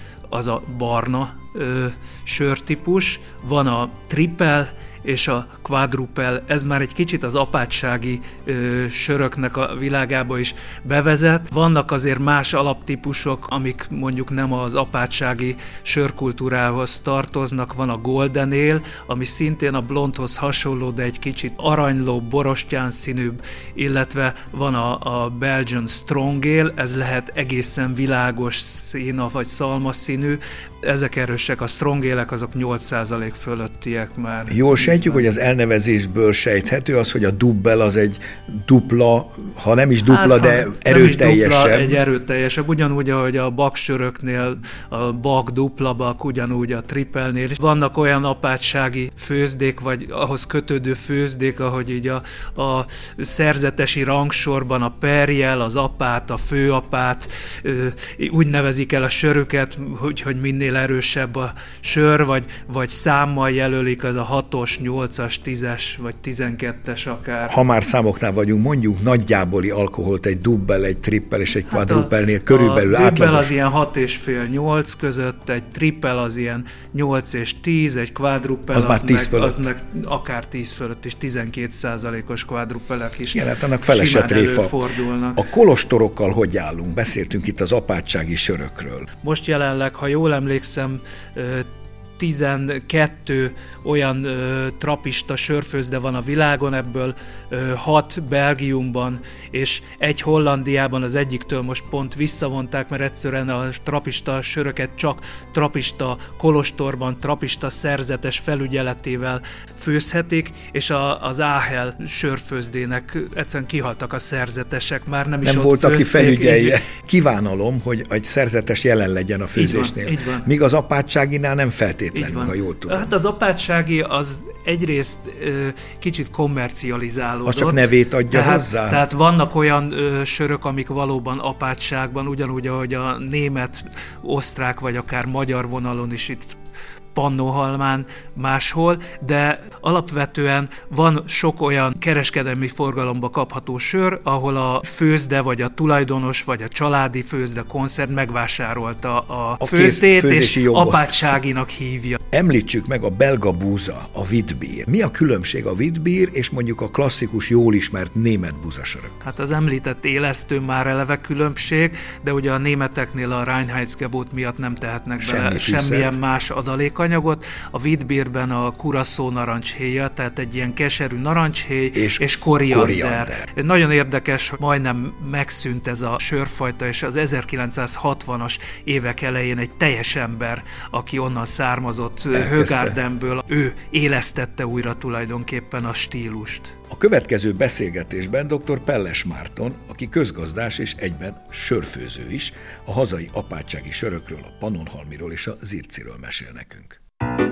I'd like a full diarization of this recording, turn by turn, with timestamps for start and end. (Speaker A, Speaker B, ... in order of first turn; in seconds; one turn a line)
Speaker A: 0.3-35.3
Speaker B: 34.5-42.0
Speaker A: 40.1-67.6
Speaker B: 67.5-73.5
Speaker A: 71.7-85.4
Speaker B: 78.7-79.7
Speaker B: 83.3-84.8
Speaker B: 85.4-89.1
Speaker A: 89.2-116.8
Speaker B: 115.4-123.1
Speaker A: 119.5-120.5
Speaker A: 122.2-136.6
Speaker B: 127.5-129.0
Speaker A: 137.2-152.2
Speaker B: 149.6-151.4
Speaker B: 152.3-159.2
Speaker A: 159.2-186.7
Speaker B: 165.2-166.2
Speaker B: 171.9-173.5
Speaker B: 182.3-183.0
Speaker B: 186.9-197.0